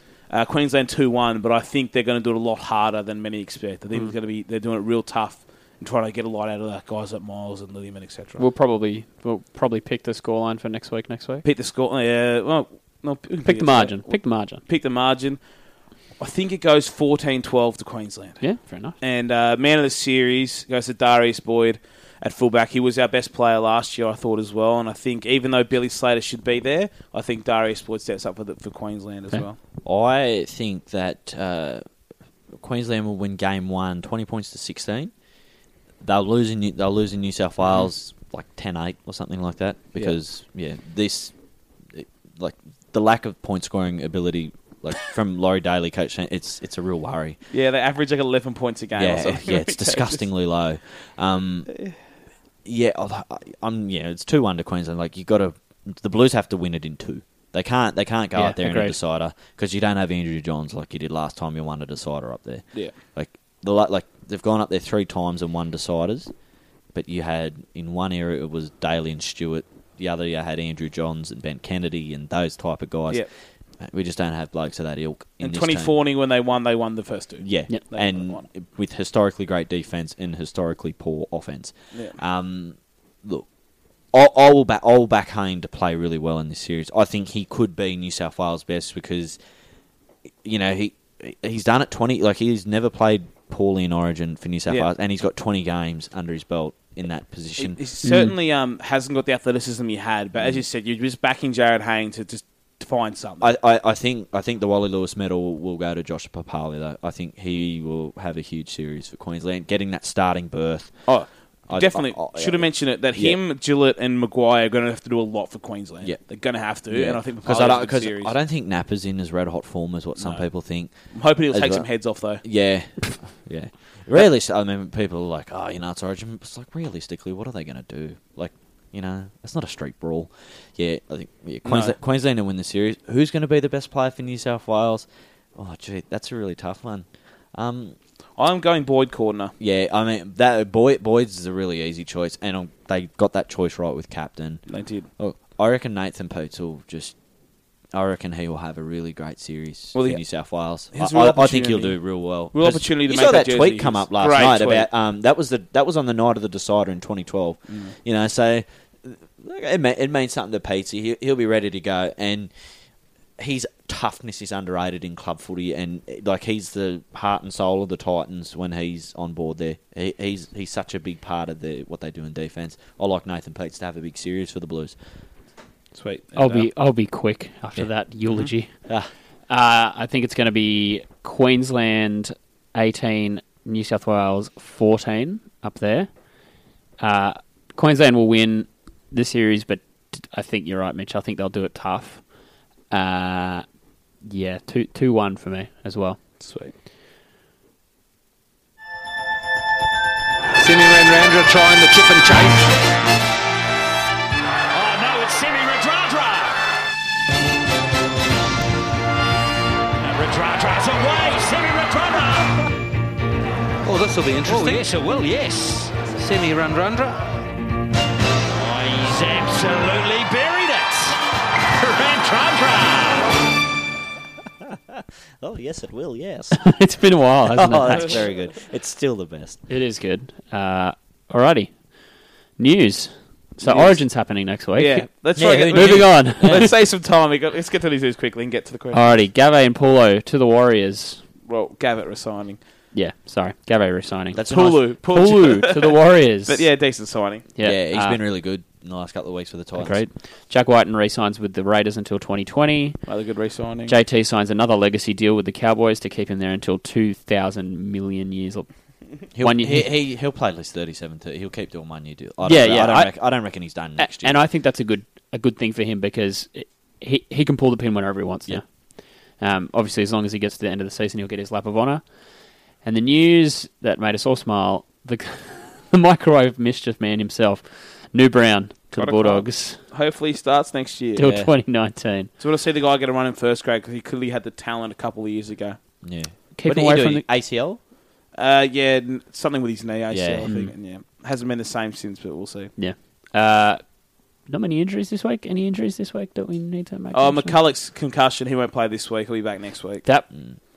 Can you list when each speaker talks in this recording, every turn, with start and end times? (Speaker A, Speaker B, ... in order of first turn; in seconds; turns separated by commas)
Speaker A: 0.3-8.4, Speaker B: 8.4-11.4, Speaker A: 11.4-15.4, Speaker B: 13.4-14.6, Speaker A: 16.2-18.5, Speaker B: 18.4-18.9, Speaker A: 19.0-29.6, Speaker C: 29.8-31.8, Speaker C: 32.5-35.1, Speaker C: 36.0-41.3, Speaker C: 41.9-47.4, Speaker A: 47.5-50.2, Speaker C: 49.0-51.7, Speaker A: 51.7-51.9, Speaker C: 52.6-66.3, Speaker B: 58.4-59.0, Speaker C: 66.9-73.3, Speaker C: 73.8-75.9, Speaker A: 75.4-78.4, Speaker C: 77.4-83.5, Speaker A: 81.9-82.2, Speaker C: 84.1-89.4, Speaker C: 90.4-97.8, Speaker A: 97.6-103.5, Speaker B: 98.0-98.3, Speaker C: 100.4-100.6, Speaker C: 103.4-111.1, Speaker A: 111.0-118.3, Speaker C: 111.7-113.4, Speaker C: 116.9-120.9, Speaker A: 120.2-120.5, Speaker A: 121.1-122.4, Speaker C: 121.5-121.9, Speaker C: 122.4-138.0, Speaker A: 131.6-131.9, Speaker A: 138.4-139.5, Speaker C: 139.6-144.6, Speaker A: 144.7-145.1, Speaker C: 145.2-147.1, Speaker C: 147.9-162.5, Speaker A: 149.9-150.2, Speaker A: 150.9-151.9, Speaker A: 152.5-154.9, Speaker C: 163.4-174.9, Speaker A: 175.9-176.7, Speaker B: 176.3-178.7, Speaker B: 179.5-186.1, Speaker B: 187.0-192.2, Speaker B: 192.9-193.6, Speaker B: 194.2-196.2, Speaker A: 196.4-196.7, Speaker D: 200.6-202.8, Speaker E: 204.7-206.6, Speaker E: 210.0-212.7, Speaker D: 213.8-214.8, Speaker E: 214.3-216.1, Speaker D: 216.1-217.2, Speaker E: 218.6-221.2, Speaker E: 221.7-223.4, Speaker C: 224.6-226.6, Speaker B: 226.6-228.1, Speaker C: 227.4-229.6, Speaker B: 229.7-231.7, Speaker B: 232.6-235.1, Speaker A: 233.6-234.0, Speaker A: 234.8-239.1, Speaker C: 235.3-236.7, Speaker B: 235.7-236.7, Speaker B: 238.9-241.2, Speaker A: 241.5-242.6, Speaker B: 242.9-246.7, Speaker C: 244.3-244.8, Speaker A: 244.5-247.4, Speaker B: 247.6-248.2, Speaker C: 247.6-250.0, Speaker B: 249.8-253.0, Speaker A: 253.1-253.9, Speaker B: 253.9-258.7, Speaker C: 259.3-264.4, Speaker B: 259.4-259.9, Speaker B: 262.4-263.1, Speaker B: 264.0-268.6, Speaker B: 269.4-272.0, Speaker B: 272.8-279.8, Speaker A: 278.9-281.3, Speaker B: 281.1-282.3, Speaker C: 281.2-281.5, Speaker A: 282.4-285.8, Speaker C: 286.0-287.8, Speaker B: 286.6-287.2, Speaker A: 288.4-292.7, Speaker C: 290.1-290.5, Speaker B: 290.4-290.7, Speaker B: 292.8-293.8, Speaker B: 294.5-297.6, Speaker A: 297.1-300.1